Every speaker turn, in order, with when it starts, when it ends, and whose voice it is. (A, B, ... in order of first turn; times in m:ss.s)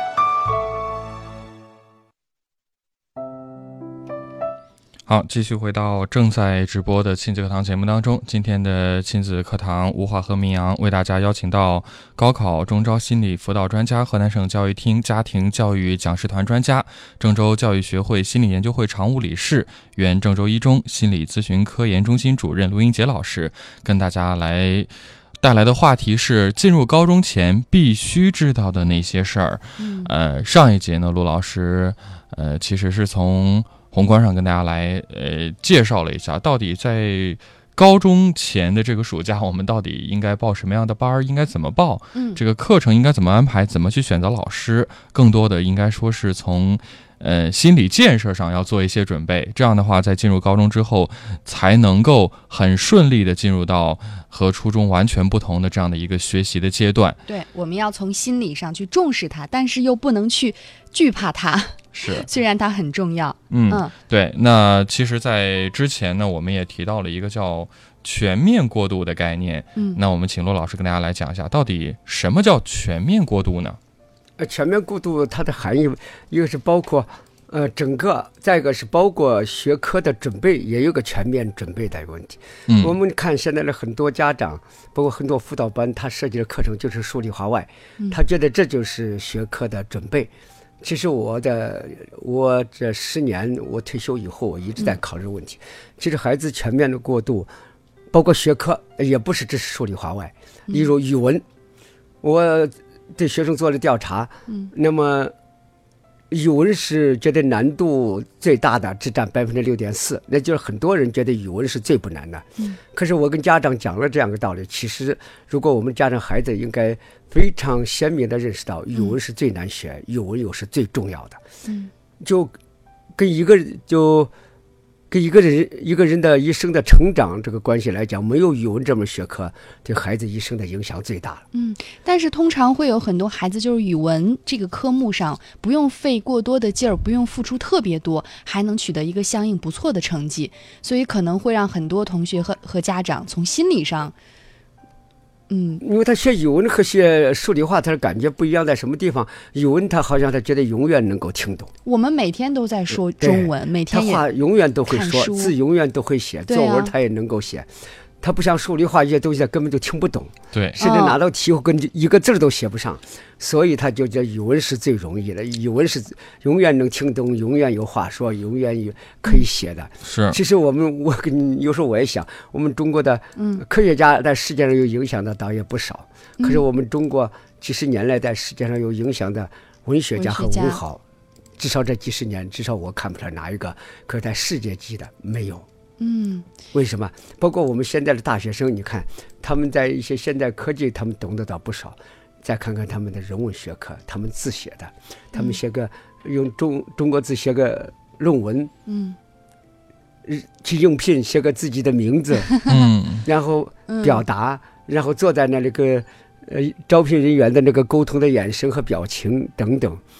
0:05.1-0:57.2 A
0:29.8-0:30.1 B
0:42.1-0:42.4 B
0:57.2-1:03.9 B
1:01.9-1:02.3 A
1:03.5-1:13.8 A
1:14.4-1:30.3 C
1:22.7-1:22.9 A
1:30.8-1:37.5 C
1:38.1-1:41.4 C
1:42.2-1:45.3 C
1:46.3-2:01.4 C
2:02.2-2:02.5 C
2:03.2-2:04.3 C
2:05.1-2:11.4 C
2:11.5-2:24.1 B
2:25.5-2:25.8 B
2:25.8-2:31.7 C
2:31.8-2:34.2 B
2:33.2-2:37.7 C
2:34.9-2:35.5 B
2:36.5-2:36.9 B
2:38.2-3:01.0 C
2:40.5-2:40.8 A
2:40.8-2:41.2 B
2:50.0-2:50.4 A
2:53.4-2:53.6 B
3:00.2-3:00.8 B
3:01.6-3:05.7 C
3:06.0-3:06.5 B
3:06.7-3:18.7 C
3:18.9-3:19.2 B
3:20.2-3:22.6 C
3:22.7-3:23.2 A
3:23.2-3:30.0 C
3:23.9-3:24.2 B